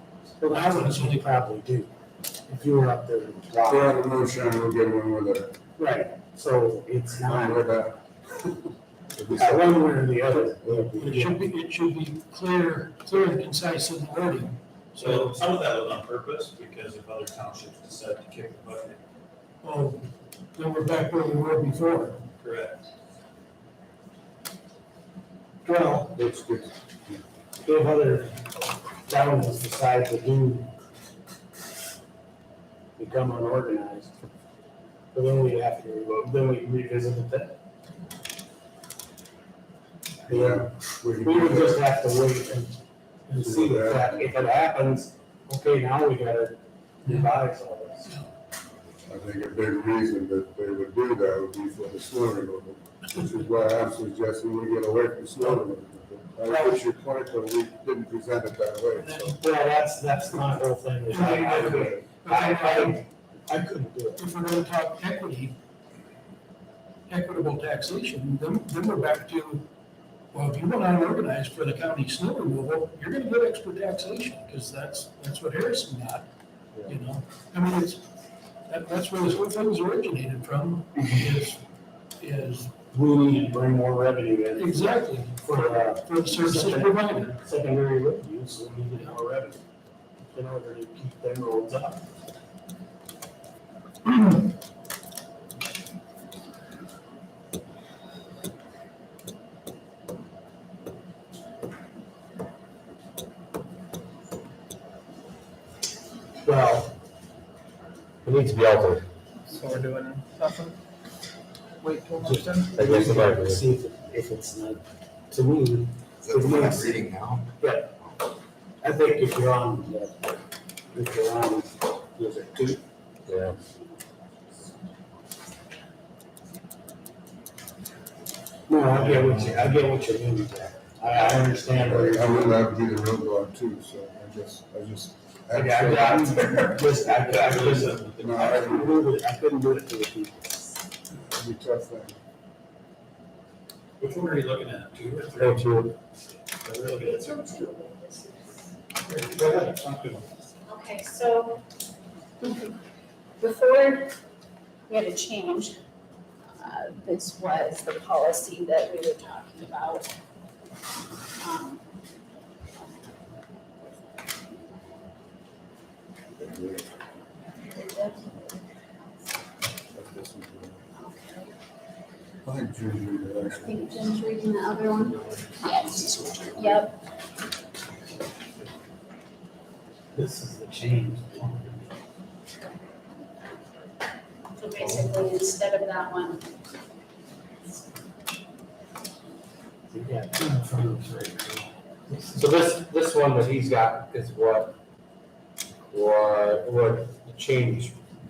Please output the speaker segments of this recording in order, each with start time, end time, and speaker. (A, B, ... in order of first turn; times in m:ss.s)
0:00.4-0:01.9 A
0:00.5-0:01.3 B
0:02.5-0:03.9 A
0:03.7-0:05.6 C
0:05.8-0:07.6 A
0:07.2-0:09.9 C
0:09.3-0:11.4 A
0:10.6-0:11.0 C
0:11.0-0:15.4 B
0:15.0-0:19.0 D
0:19.6-0:22.2 B
0:22.4-0:22.8 D
0:25.6-0:26.3 A
0:26.2-0:26.7 C
0:27.6-0:28.4 A
0:29.1-0:30.7 A
0:33.0-0:34.1 A
0:35.1-0:37.6 A
0:40.3-0:42.8 A
0:40.3-0:41.9 C
0:43.3-0:48.1 A
0:43.3-0:44.3 C
0:49.1-0:59.3 C
0:56.5-0:56.8 B
0:59.0-0:59.4 B
0:59.4-1:04.2 A
1:01.1-1:03.0 B
1:04.2-1:05.6 B
1:07.1-1:09.7 B
1:10.3-1:16.3 B
1:16.8-1:18.0 B
1:18.7-1:21.6 B
1:22.2-1:22.7 B
1:22.9-1:29.6 A
1:24.6-1:27.4 B
1:30.3-1:32.0 A
1:46.4-1:46.9 A
1:48.2-1:49.1 E
1:49.5-1:50.8 F
1:51.8-1:52.8 F
1:52.2-1:57.0 A
1:52.8-1:53.6 E
1:56.2-1:57.5 G
1:57.6-1:57.9 A
1:58.8-2:00.3 A
2:00.9-2:02.8 A
2:03.3-2:03.6 E
2:08.7-2:12.6 A
2:11.7-2:16.9 C
2:15.5-2:20.5 A
2:17.0-2:18.6 D
2:18.2-2:19.0 C
2:21.2-2:22.2 C
2:24.0-2:25.6 D
2:25.4-2:26.0 E
2:26.6-2:27.4 D
2:26.8-2:28.7 H
2:29.1-2:30.2 D
2:30.7-2:31.6 H
2:32.4-2:32.8 H
2:33.4-2:34.2 H
2:34.9-2:35.8 H
2:36.6-2:40.1 H
2:41.4-2:41.8 H
2:43.9-2:44.8 H
2:46.5-2:46.8 C
2:47.7-2:48.7 H
2:49.9-2:50.8 C
2:51.0-2:51.5 H
2:52.4-2:53.8 C
2:53.5-2:57.0 H
2:55.7-2:56.9 G
3:00.1-3:01.9 A
3:04.6-3:06.5 H
3:09.9-3:12.4 A
3:12.4-3:14.8 E
3:15.9-3:18.0 E